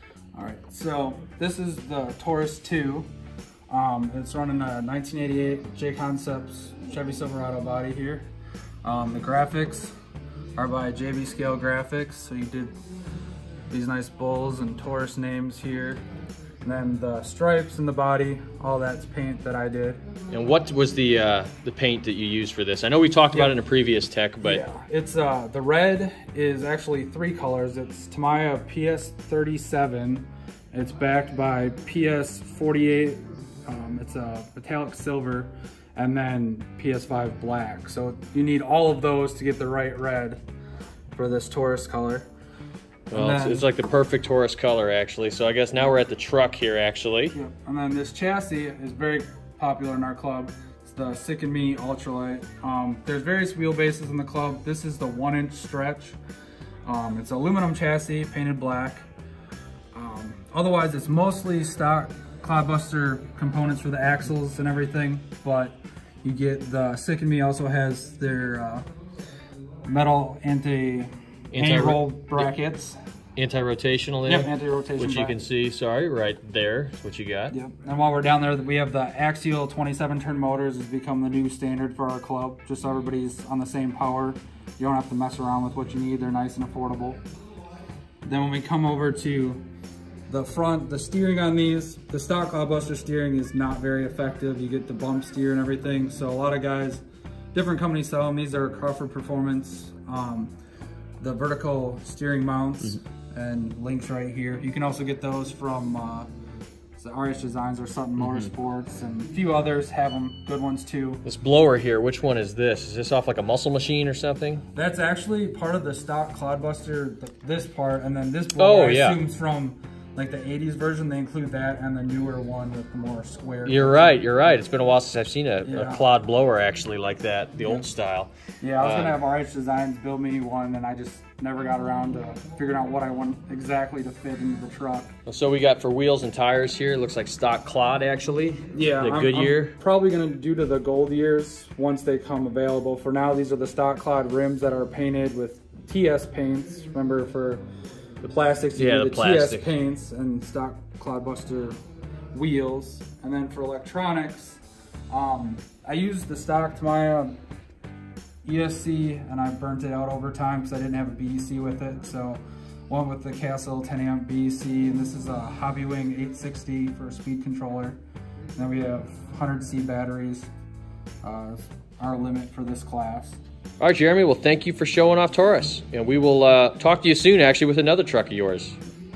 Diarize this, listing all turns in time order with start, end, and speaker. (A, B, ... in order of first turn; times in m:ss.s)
0:00.4-0:03.1 A
0:03.7-0:08.3 A
0:08.8-0:09.9 A
0:10.6-0:12.7 A
0:13.7-0:16.0 A
0:16.6-0:20.0 A
0:20.3-0:24.6 B
0:24.4-0:40.4 A
0:41.1-0:42.3 A
0:43.1-0:43.7 A
0:43.1-0:47.4 B
0:47.3-0:56.2 A
0:56.8-0:59.1 A
0:59.9-1:08.9 A
1:09.9-1:13.0 A
1:11.5-1:12.5 B
1:13.4-1:17.5 B
1:14.3-1:15.4 A
1:17.5-1:27.2 A
1:28.2-1:29.6 A
1:30.3-1:37.0 A
1:37.5-1:40.5 A
1:41.2-1:46.3 A
1:47.0-1:51.2 A
1:51.2-1:54.6 B
1:54.7-2:04.2 A
1:58.6-1:59.2 B
2:03.6-2:09.2 B
2:05.6-2:06.1 A
2:08.6-2:15.1 A
2:15.3-2:19.8 B
2:18.7-2:27.6 A
2:28.2-2:31.8 A
2:28.8-2:29.7 B
2:32.3-2:37.4 A
2:38.4-2:48.0 A
2:48.6-2:50.5 A
2:51.2-2:53.4 A
2:53.8-2:58.8 B